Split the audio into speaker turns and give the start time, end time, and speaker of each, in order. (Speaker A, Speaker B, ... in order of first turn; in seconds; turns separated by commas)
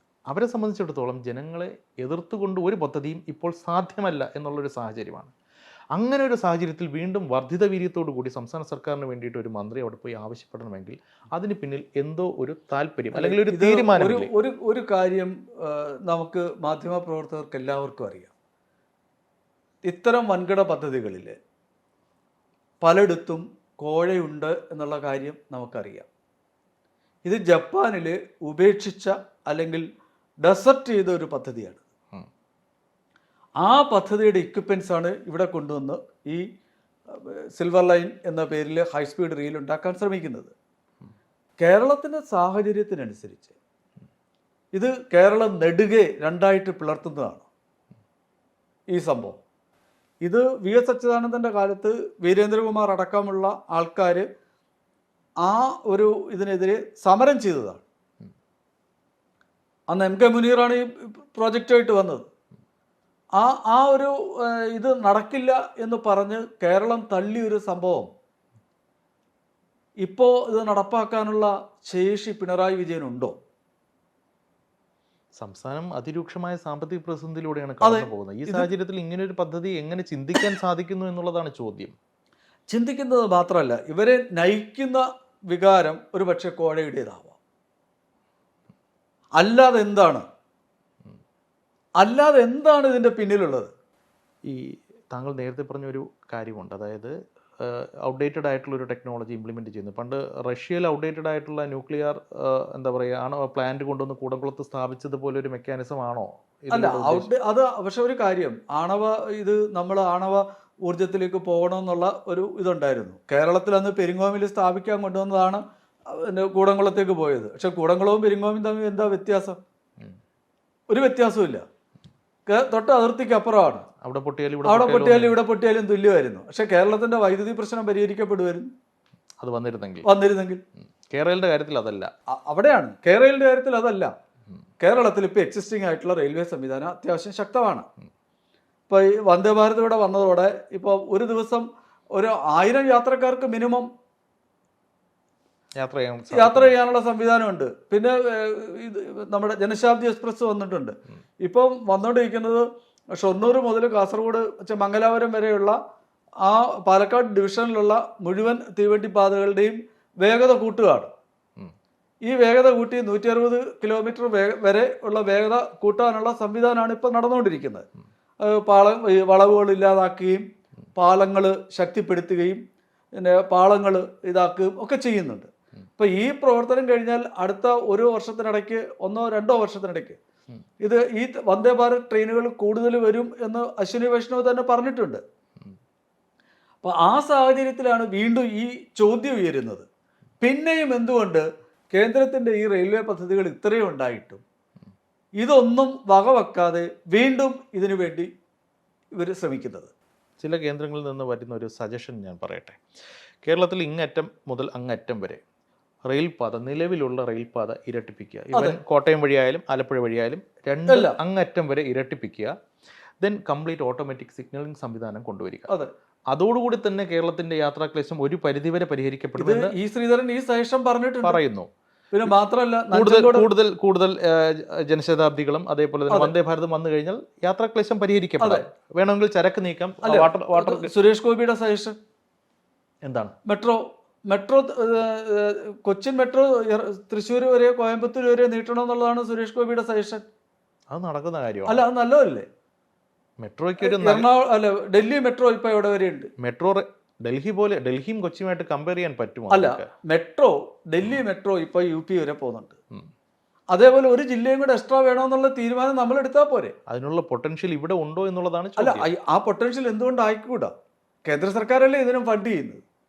Speaker A: 0.3-5.3, Speaker A: 6.0-14.3, Speaker B: 13.1-18.3, Speaker B: 19.9-21.4, Speaker B: 22.8-26.1, Speaker B: 27.2-29.9, Speaker B: 30.4-31.8, Speaker B: 33.6-36.5, Speaker B: 37.1-40.5, Speaker B: 41.6-43.5, Speaker B: 44.7-47.5, Speaker B: 48.9-49.4, Speaker B: 50.2-54.3, Speaker B: 55.4-57.8, Speaker B: 59.9-62.3, Speaker B: 63.4-68.1, Speaker B: 70.0-73.3, Speaker A: 75.4-82.0, Speaker B: 77.8-78.7, Speaker B: 82.7-87.4, Speaker B: 89.4-90.2, Speaker B: 92.0-93.7, Speaker A: 94.5-107.3, Speaker B: 106.7-119.6, Speaker B: 120.9-121.6, Speaker B: 122.5-123.9, Speaker A: 124.0-125.4, Speaker B: 124.7-128.7, Speaker A: 129.4-130.1, Speaker B: 130.1-130.6, Speaker A: 131.1-132.1, Speaker B: 132.3-134.1, Speaker B: 134.8-137.9, Speaker B: 138.9-143.9, Speaker A: 145.8-146.8, Speaker B: 146.3-155.8, Speaker B: 156.4-161.1, Speaker B: 162.3-167.9, Speaker B: 168.4-170.4, Speaker B: 171.0-172.6, Speaker B: 173.2-180.2, Speaker B: 180.8-185.2, Speaker B: 186.8-189.9, Speaker B: 190.4-194.4, Speaker B: 195.4-198.3, Speaker B: 199.2-199.9, Speaker A: 200.4-202.8, Speaker A: 203.4-205.4, Speaker A: 206.1-212.5, Speaker B: 208.5-208.8, Speaker B: 210.9-211.2, Speaker A: 213.2-215.7, Speaker A: 216.3-219.8, Speaker B: 219.4-221.4, Speaker A: 221.2-221.7, Speaker B: 222.1-223.5, Speaker A: 222.9-230.9, Speaker B: 228.4-228.7, Speaker B: 230.0-232.0, Speaker A: 233.1-233.4, Speaker B: 233.5-240.2, Speaker A: 240.9-241.8, Speaker B: 241.7-242.5, Speaker A: 243.4-244.3, Speaker B: 243.8-246.3, Speaker A: 246.4-249.9, Speaker B: 249.5-252.8, Speaker B: 253.7-256.7, Speaker A: 256.9-259.1, Speaker B: 258.8-260.7, Speaker B: 261.3-262.8